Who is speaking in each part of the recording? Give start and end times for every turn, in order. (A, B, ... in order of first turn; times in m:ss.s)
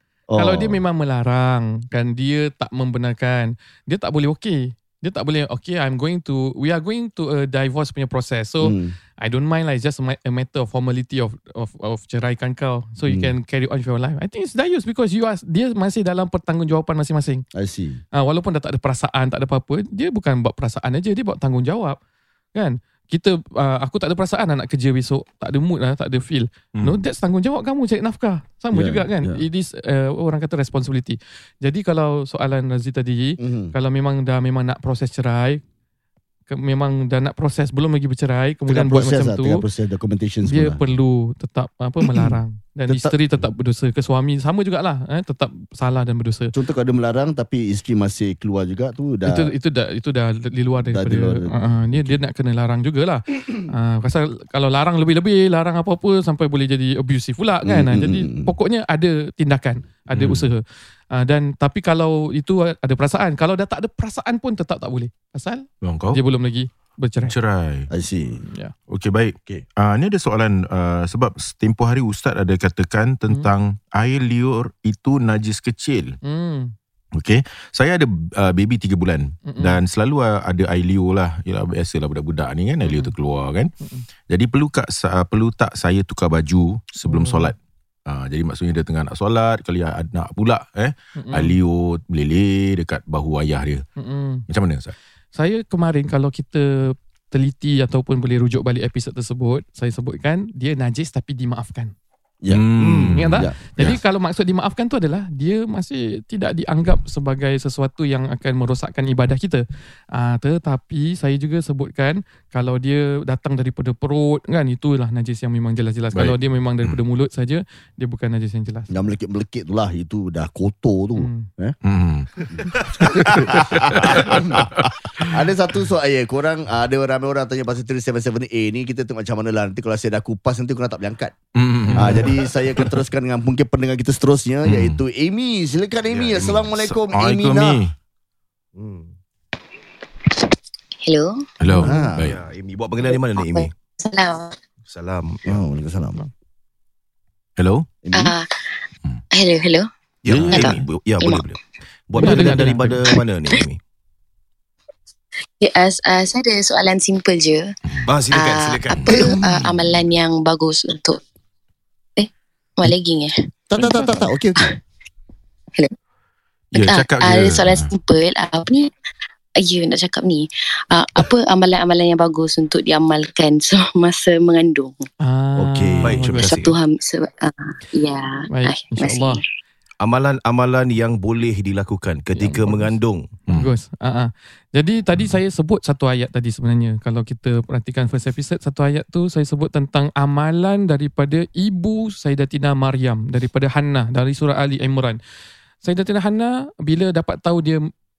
0:00.3-0:00.8 A
0:00.4-0:17.4 B
0:08.6-0:09.0 A
0:13.1-0:13.4 A
0:17.5-0:18.0 A
0:18.1-0:22.0 B
0:22.6-0:35.6 B
0:28.7-0:29.4 A
0:33.4-0:33.8 A
0:36.5-0:39.6 B
0:38.7-0:40.9 A
0:40.5-0:46.5 B
0:42.0-0:43.2 A
0:46.5-0:49.5 A
0:49.3-1:00.6 B
0:50.8-0:52.2 A
0:57.7-0:58.6 A
1:00.1-1:00.5 C
1:01.1-1:07.4 B
1:05.8-1:06.2 C
1:07.2-1:07.9 C
1:07.9-1:08.4 A
1:08.4-1:08.7 B
1:08.9-1:16.2 C
1:16.2-1:16.7 B
1:17.2-1:23.7 C
1:19.5-1:19.8 B
1:22.9-1:23.1 B
1:23.8-1:24.1 B
1:24.3-1:27.6 C
1:27.1-1:27.5 B
1:28.1-1:33.8 C
1:31.2-1:31.6 B
1:34.0-1:34.4 B
1:34.5-1:35.0 C
1:35.3-1:41.9 B
1:42.4-1:44.0 A
1:42.5-1:44.0 C
1:42.8-1:43.2 D
1:43.2-1:59.0 B
1:56.1-1:57.0 C
1:58.9-2:01.8 A
2:01.2-2:01.5 B
2:01.8-2:02.3 C
2:02.5-2:11.3 A
2:03.2-2:05.3 C
2:11.6-2:13.0 C
2:12.0-2:17.8 A
2:14.6-2:15.0 C
2:16.1-2:16.6 D
2:16.5-2:17.9 C
2:18.8-2:19.1 D
2:21.0-2:21.9 E
2:21.6-2:22.4 C
2:21.8-2:22.3 A
2:22.2-2:23.7 D
2:23.0-2:24.6 E
2:24.9-2:25.6 D
2:25.5-2:26.2 A
2:27.6-2:27.9 C
2:28.0-2:28.4 A
2:28.1-2:28.7 E
2:29.3-2:29.9 E
2:30.2-2:33.8 D
2:30.3-2:30.8 C
2:30.5-2:31.5 E
2:32.2-2:33.1 B
2:35.6-2:37.7 E
2:38.1-2:39.3 D
2:38.3-2:41.2 E
2:39.0-2:39.3 C
2:42.2-2:44.2 E
2:43.7-2:44.8 A
2:43.8-2:44.0 B
2:46.7-2:47.9 C
2:46.8-2:48.9 E
2:49.6-2:55.1 E
2:55.2-2:56.5 B
2:55.6-2:56.2 A
2:56.0-2:56.8 D
2:56.2-2:59.4 E
2:58.5-2:59.4 B
3:00.0-3:03.3 D
3:02.4-3:03.0 B
3:03.5-3:15.2 B
3:15.8-3:17.8 B